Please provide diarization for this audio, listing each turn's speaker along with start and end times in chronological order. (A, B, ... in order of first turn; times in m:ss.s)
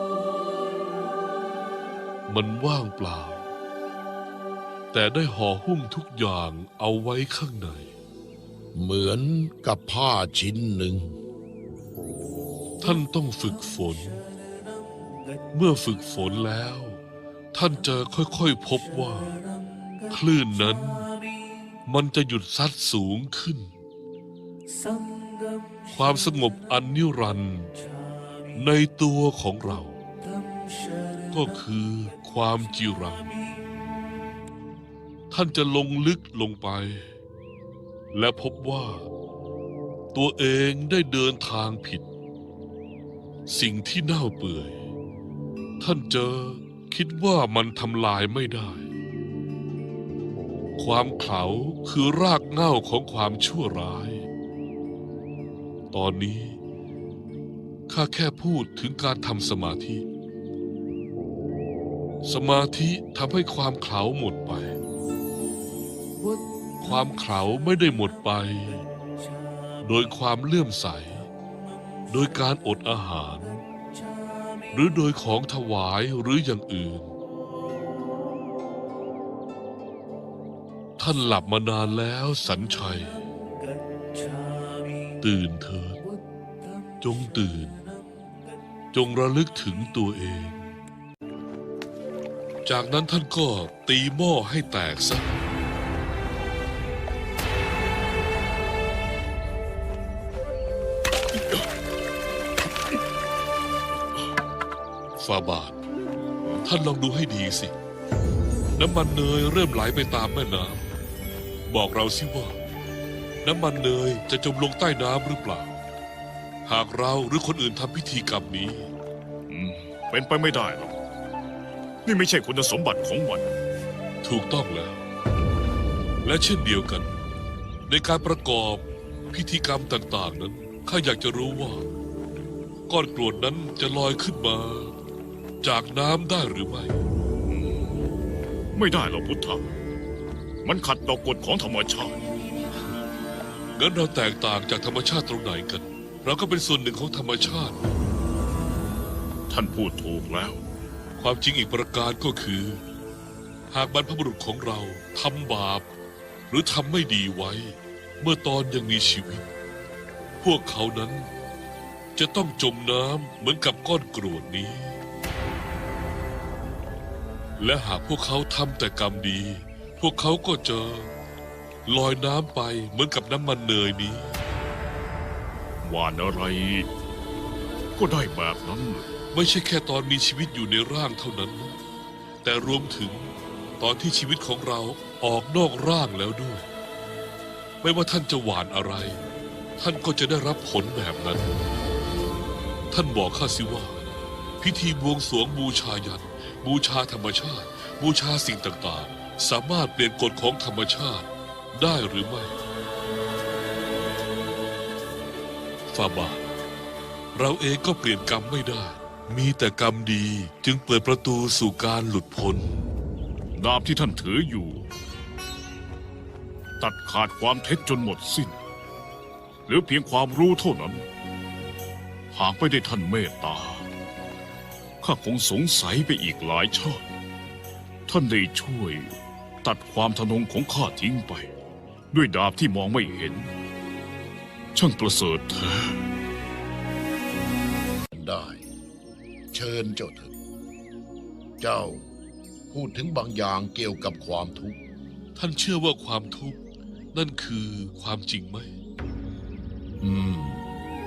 0:02.3-0:03.4 A
0:04.9-0:07.9 A
0:08.8-0:11.2 B
0:12.8-0:14.2 A
0:15.5-0:17.0 A
0:17.5-0:19.4 A
0:20.1-0:21.1 A
0:21.9-0:23.7 A
0:25.9-0:27.7 A
0:28.5-0:30.0 A
0:31.3-0:33.3 A
0:35.3-0:37.1 A
0:38.1-0:39.1 A
0:40.1-0:42.1 A
0:43.5-0:44.8 A
0:45.8-0:48.9 A
0:50.8-0:54.3 A
0:55.9-0:56.6 A
0:57.9-1:00.1 A
1:02.2-1:04.8 A
1:06.8-1:08.8 A
1:09.8-1:11.3 A
1:12.1-1:13.6 A
1:14.7-1:17.1 A
1:21.0-1:23.2 A
1:25.2-1:26.0 A
1:27.0-1:27.8 A
1:28.9-1:30.7 A
1:32.7-1:35.4 A
1:45.2-1:45.8 A
1:46.6-1:47.7 A
1:48.8-1:50.9 A
1:51.7-1:52.6 A
1:53.4-1:55.7 A
1:56.7-1:58.9 A
1:59.5-2:01.0 C
2:02.0-2:03.5 C
2:04.2-2:05.0 A
2:06.2-2:07.1 A
2:07.9-2:11.9 A
2:12.9-2:15.0 A
2:15.6-2:17.0 A
2:17.5-2:17.9 C
2:18.7-2:19.7 C
2:20.6-2:22.2 C
2:23.8-2:27.9 A
2:29.5-2:30.6 C
2:31.2-2:32.8 A
2:33.7-2:35.9 A
2:36.5-2:39.5 A
2:40.4-2:41.3 A
2:42.2-2:45.0 A
2:47.6-2:51.1 A
2:51.9-2:54.4 A
2:55.8-2:56.9 C
2:58.0-2:59.1 C
2:59.3-3:01.8 A
3:02.4-3:06.7 A
3:07.8-3:09.2 A
3:09.8-3:11.6 A
3:12.9-3:14.1 A
3:14.6-3:22.6 A
3:25.9-3:26.5 A
3:27.4-3:32.7 A
3:33.6-3:34.9 C
3:36.8-3:38.6 C
3:39.7-3:41.0 C
3:42.3-3:43.9 C
3:45.0-3:47.0 C
3:48.1-3:49.1 C
3:49.6-3:51.5 C
3:52.1-3:53.5 C
3:54.8-3:56.0 C
3:58.1-3:58.6 B
3:59.5-4:00.3 B
4:01.6-4:02.1 B
4:02.7-4:04.8 B
4:05.4-4:06.6 A
4:07.1-4:08.8 A
4:10.0-4:10.6 B